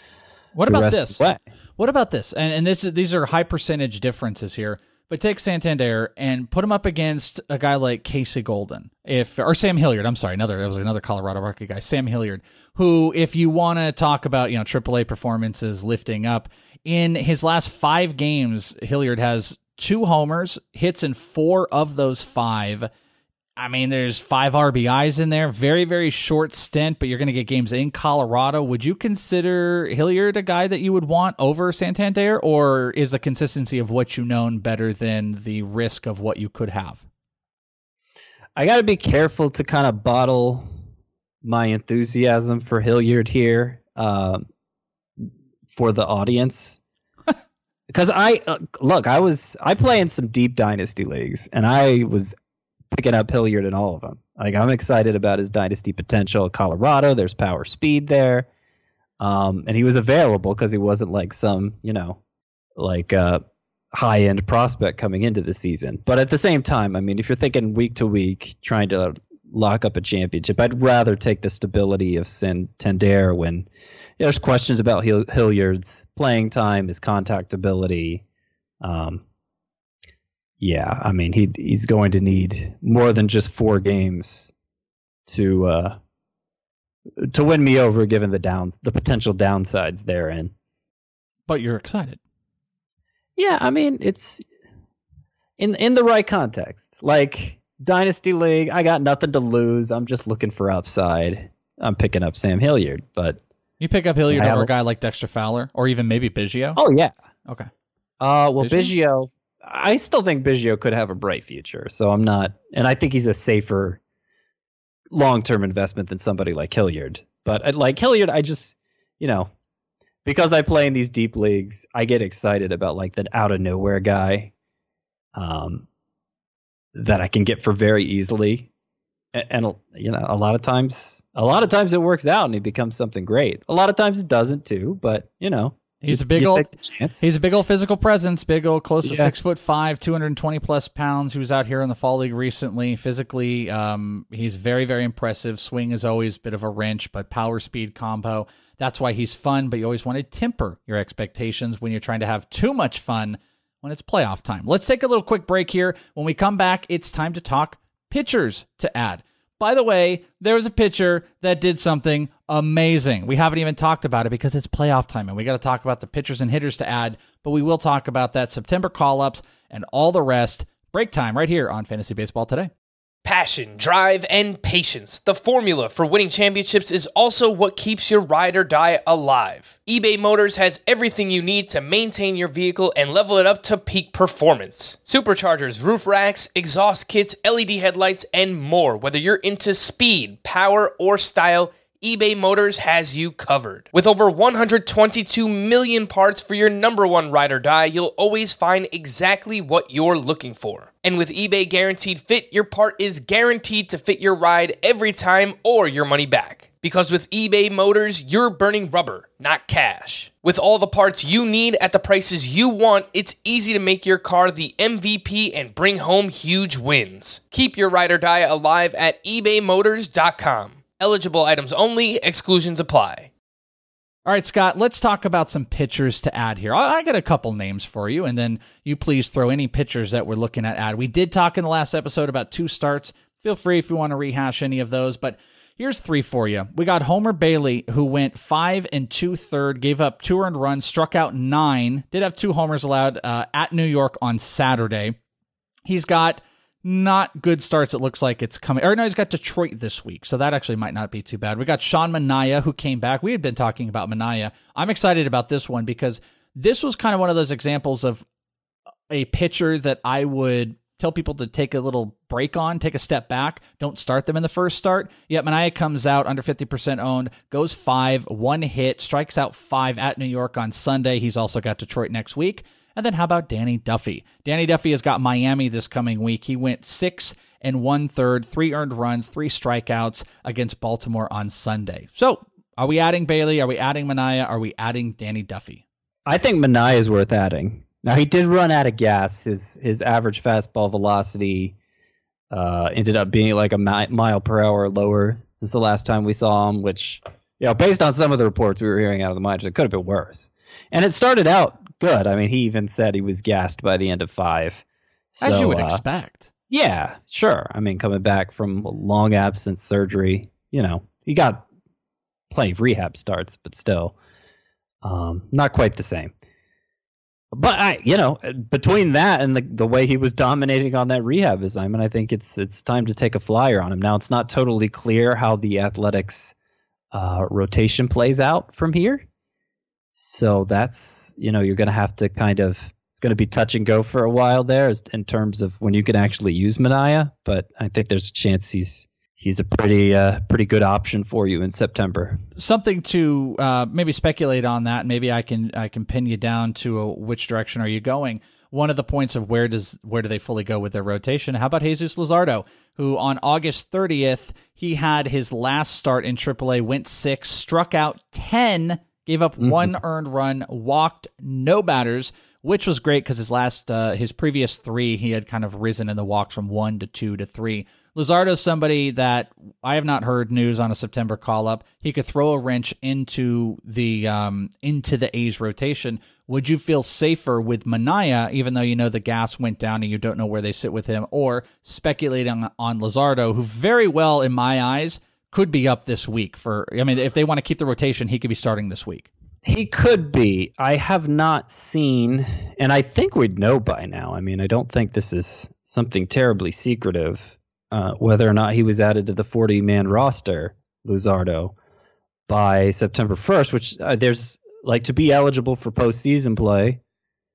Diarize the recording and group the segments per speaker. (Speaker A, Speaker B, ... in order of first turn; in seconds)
Speaker A: 0.5-22.9, 23.6-37.0, 91.5-92.2, 103.8-106.8, 108.6-108.9, 136.0-172.7, 224.2-245.2, 245.8-258.2, 259.1-285.8, 305.4-306.5, 342.6-389.3
Speaker B: 0.7-1.4, 38.5-40.7, 41.4-44.4, 45.7-46.8, 47.9-52.3, 52.9-58.5, 59.2-62.2, 62.8-63.4, 63.9-73.7, 74.2-78.2, 78.8-79.2, 80.6-84.5, 85.3-86.0, 87.2-90.5, 93.4-94.4, 95.6-103.4, 104.3-104.7, 106.8-107.1, 108.2-114.0, 115.1-119.5, 120.2-124.5, 125.3-125.9, 126.9-128.7, 129.3-137.2, 139.0-139.3, 286.2-291.7, 292.5-306.0, 306.7-311.6, 312.5-314.1, 315.0-316.3, 317.5-326.5, 327.1-329.2, 330.1-342.4, 359.6-359.9, 389.6-401.7, 402.5-407.0
Speaker C: 173.2-223.3